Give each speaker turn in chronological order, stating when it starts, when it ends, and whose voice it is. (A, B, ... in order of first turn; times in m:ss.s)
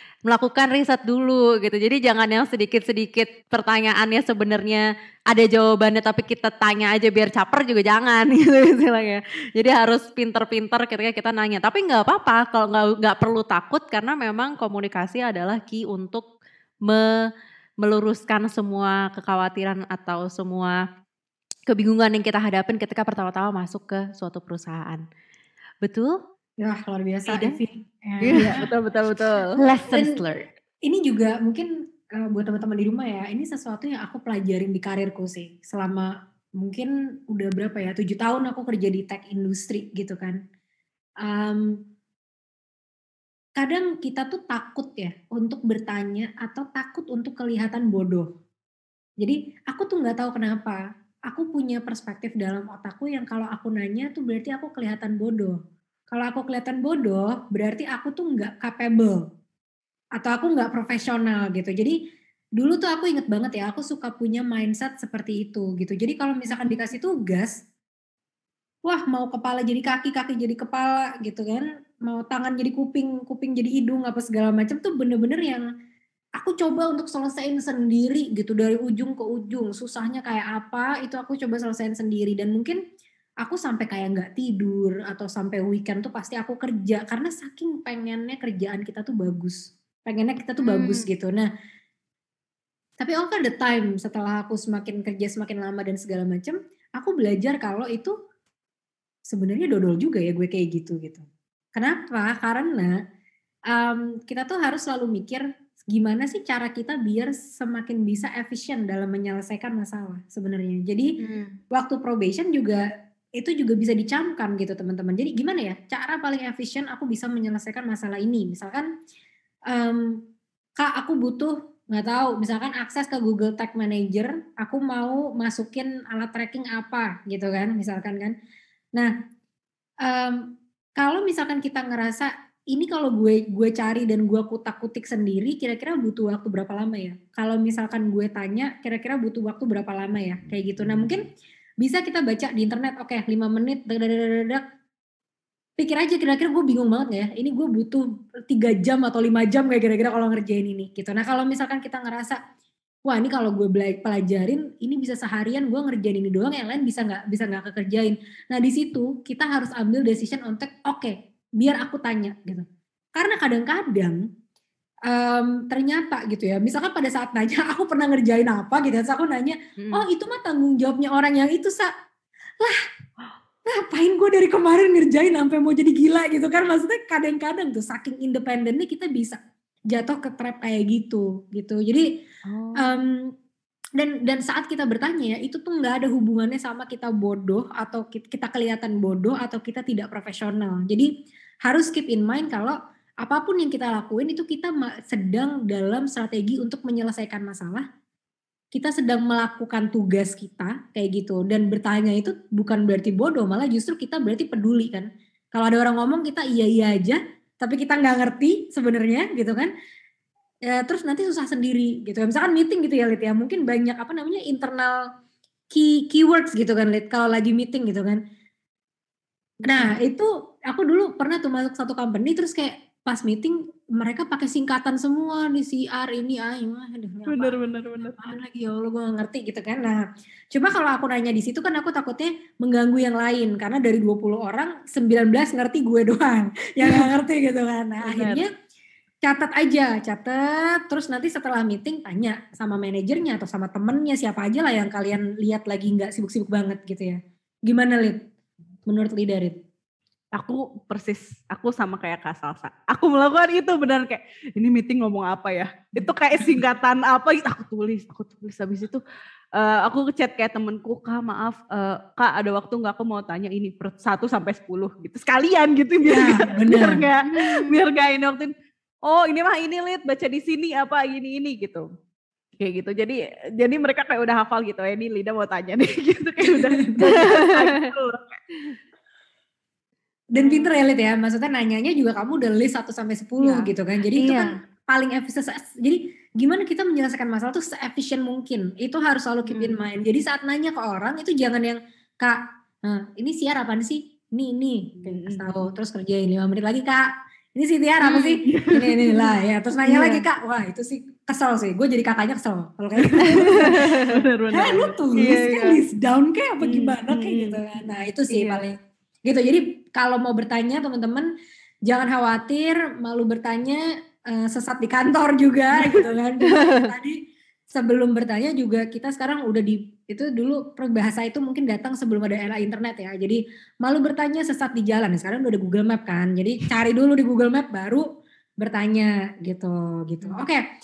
0:00.3-0:16.2 A
0:17.8-0:20.8 A
0:21.7-0:25.0 A
0:25.8-0:26.1 A
0:26.6-0:28.6 B
0:27.3-0:27.6 A
0:28.2-0:28.6 A
0:28.3-0:29.6 C
0:29.6-0:30.5 A
0:30.9-0:36.1 B
0:36.6-0:40.4 B
0:41.2-0:41.7 B
0:43.6-0:48.3 B
0:49.2-0:55.6 B
0:56.1-0:59.2 B
1:00.2-1:01.9 B
1:02.6-1:07.5 B
1:06.5-1:06.8 A
1:08.8-1:15.6 B
1:16.4-1:22.8 B
1:23.4-1:31.5 B
1:30.6-1:31.0 A
1:33.0-1:38.1 B
1:39.3-1:41.2 B
1:41.8-1:42.9 B
1:43.7-1:51.1 B
1:51.2-1:51.6 A
1:51.7-1:52.8 B
1:53.4-1:58.9 B
1:59.7-2:00.1 B
2:00.8-2:08.3 B
2:10.0-2:10.4 B
2:11.0-2:21.2 B
2:21.8-2:24.6 B
2:25.8-2:32.4 B
2:33.0-2:42.6 B
2:43.2-2:44.2 B
2:45.1-2:51.9 B
2:49.8-2:50.0 A
2:53.7-2:59.4 B
2:59.9-3:02.0 B
3:02.5-3:02.9 A
3:02.8-3:03.3 B
3:04.0-3:11.1 B
3:11.6-3:17.8 B
3:18.7-3:29.7 B
3:30.7-3:35.0 B
3:35.7-3:38.2 B
3:39.6-3:58.5 B
3:47.3-3:48.2 C
3:58.0-3:58.4 C
3:59.2-4:08.2 B
4:08.9-4:09.6 B
4:10.4-4:19.0 C
4:16.0-4:16.6 B
4:19.6-4:28.5 C
4:26.0-4:27.0 B
4:27.2-4:27.7 A
4:29.1-4:31.8 C
4:32.6-4:38.4 C
4:36.4-4:37.0 B
4:37.0-4:37.9 A
4:40.4-5:03.9 B
4:44.2-4:44.5 A
4:55.0-4:55.6 C
4:58.1-4:58.4 A
4:58.5-4:59.1 C
4:59.8-5:00.2 A
5:03.2-5:05.0 C
5:03.6-5:03.9 A
5:04.5-5:11.3 B
5:05.2-5:05.6 A
5:06.6-5:07.6 C
5:08.3-5:08.6 A
5:11.9-5:17.2 B
5:17.7-5:28.0 B
5:28.6-5:30.6 B